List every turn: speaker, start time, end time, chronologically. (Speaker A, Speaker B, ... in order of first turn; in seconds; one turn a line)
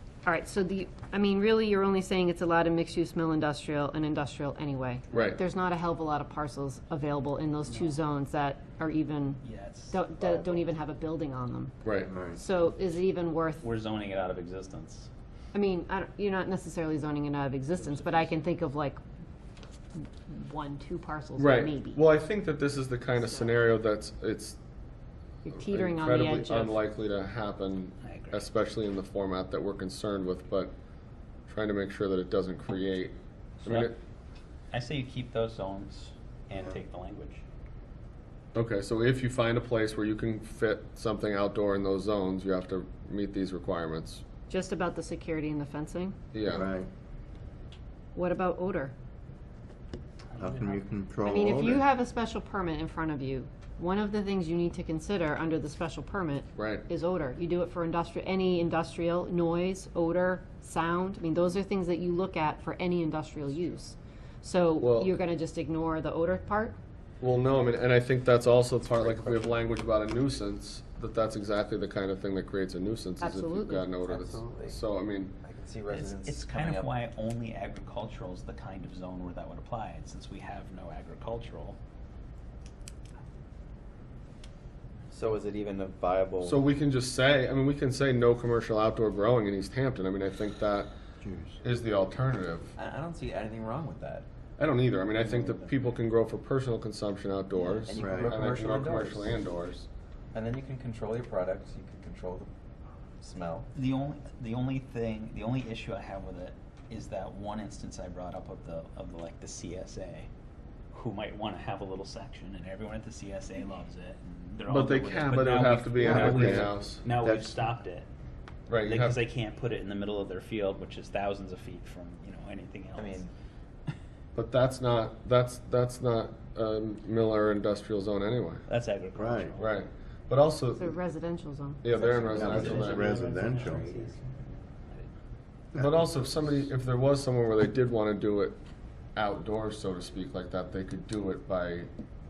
Speaker A: 0.2-13.7
Speaker B: 5.1-5.4
Speaker C: 7.7-8.0
Speaker C: 9.4-10.0
Speaker D: 10.2-10.6
Speaker B: 11.8-12.1
Speaker E: 12.1-12.4
Speaker C: 13.6-15.1
Speaker A: 15.5-19.0
Speaker C: 17.8-18.3
Speaker A: 19.9-22.0
Speaker B: 21.4-24.6
Speaker A: 23.2-23.5
Speaker A: 25.4-26.8
Speaker B: 25.5-30.7
Speaker C: 28.0-28.4
Speaker B: 31.5-34.0
Speaker C: 33.6-33.9
Speaker C: 34.7-37.4
Speaker B: 38.5-44.2
Speaker A: 44.5-46.1
Speaker B: 46.3-46.6
Speaker E: 46.5-46.9
Speaker A: 48.1-48.9
Speaker C: 50.4-50.7
Speaker E: 50.4-51.8
Speaker A: 51.2-66.8
Speaker B: 56.5-56.8
Speaker B: 64.8-65.1
Speaker B: 67.2-75.3
Speaker D: 69.0-69.6
Speaker A: 73.2-73.9
Speaker D: 74.0-74.8
Speaker D: 75.4-76.9
Speaker C: 75.9-81.8
Speaker D: 85.1-86.6
Speaker B: 86.4-90.9
Speaker E: 91.2-91.5
Speaker B: 91.6-92.7
Speaker D: 92.8-94.2
Speaker B: 94.6-99.9
Speaker C: 95.2-95.6
Speaker D: 97.8-99.4
Speaker E: 97.9-98.3
Speaker D: 100.3-102.5
Speaker D: 103.2-103.7
Speaker C: 103.7-110.3
Speaker C: 110.9-118.1
Speaker B: 114.7-117.0
Speaker E: 116.0-116.6
Speaker D: 116.1-116.5
Speaker E: 117.2-117.5
Speaker B: 118.7-119.2
Speaker C: 118.8-123.2
Speaker D: 122.9-123.3
Speaker B: 124.3-128.6
Speaker C: 128.7-129.7
Speaker E: 129.1-129.6
Speaker B: 129.6-130.9
Speaker A: 130.8-131.8
Speaker B: 131.8-133.1
Speaker D: 131.9-134.2
Speaker C: 132.2-134.2
Speaker E: 132.3-133.8
Speaker E: 135.7-136.2
Speaker B: 135.8-138.6
Speaker B: 139.1-141.9